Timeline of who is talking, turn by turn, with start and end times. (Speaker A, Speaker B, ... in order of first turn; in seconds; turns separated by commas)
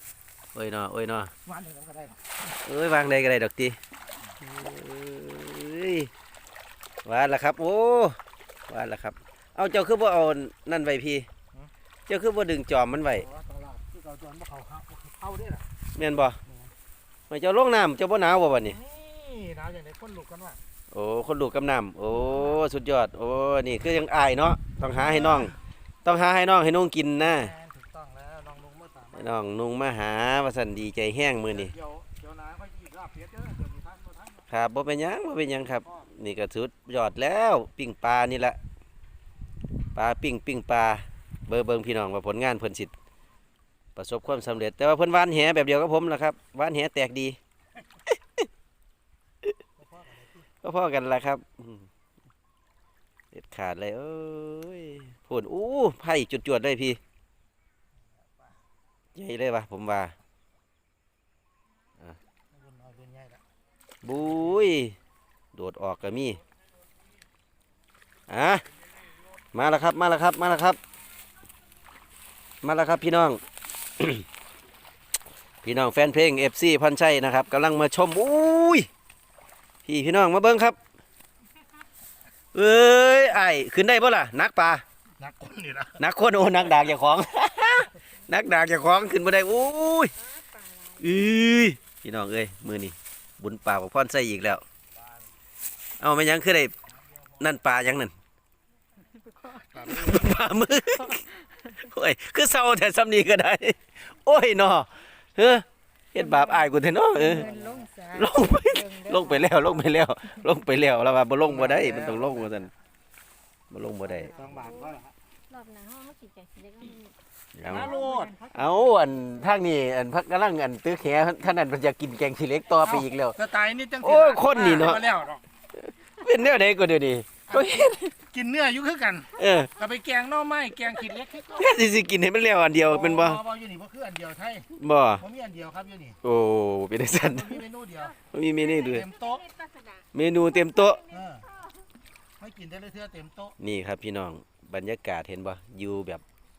Speaker A: 0.5-1.3, Speaker B: 1.5-2.2, Speaker A: 2.5-3.8, Speaker A: 4.4-6.1, Speaker A: 7.0-11.3, Speaker A: 12.1-13.3, Speaker B: 13.4-15.6, Speaker A: 15.9-16.4, Speaker A: 17.3-18.9, Speaker B: 18.9-20.6, Speaker A: 20.9-27.6, Speaker B: 27.6-29.1, Speaker A: 29.1-31.8, Speaker B: 31.8-34.3, Speaker A: 34.5-38.6, Speaker A: 40.0-42.9, Speaker A: 44.0-47.4, Speaker A: 48.1-48.5, Speaker B: 49.8-50.4, Speaker A: 50.6-51.9, Speaker A: 53.3-57.0, Speaker A: 59.1-60.1, Speaker B: 62.5-63.4, Speaker A: 64.0-65.0, Speaker A: 65.5-66.4, Speaker A: 68.3-68.7, Speaker A: 69.5-70.8, Speaker A: 72.6-73.4, Speaker A: 74.0-74.2, Speaker A: 75.6-78.9, Speaker A: 79.8-80.8, Speaker A: 82.5-84.8, Speaker B: 85.2-86.0, Speaker A: 86.0-90.1, Speaker C: 90.2-91.1, Speaker A: 91.0-94.6, Speaker A: 96.0-96.7, Speaker A: 97.4-98.1, Speaker C: 99.2-99.8, Speaker A: 99.7-107.5, Speaker C: 106.2-106.7, Speaker C: 107.2-109.7, Speaker A: 108.1-112.7, Speaker A: 113.7-114.5, Speaker C: 114.3-117.2, Speaker B: 114.4-115.1, Speaker A: 117.5-118.0, Speaker C: 117.7-119.3, Speaker A: 118.5-125.2, Speaker B: 123.5-125.4, Speaker A: 125.7-128.2, Speaker B: 128.2-131.6, Speaker A: 129.3-129.8, Speaker A: 131.4-133.4, Speaker B: 133.2-134.7, Speaker A: 134.7-135.3, Speaker B: 135.3-136.1, Speaker A: 136.2-137.7, Speaker B: 137.6-138.1, Speaker A: 138.2-139.1, Speaker C: 138.7-140.1, Speaker B: 139.1-139.3, Speaker A: 140.1-141.1, Speaker C: 140.8-141.9, Speaker B: 142.4-143.5, Speaker A: 143.6-146.2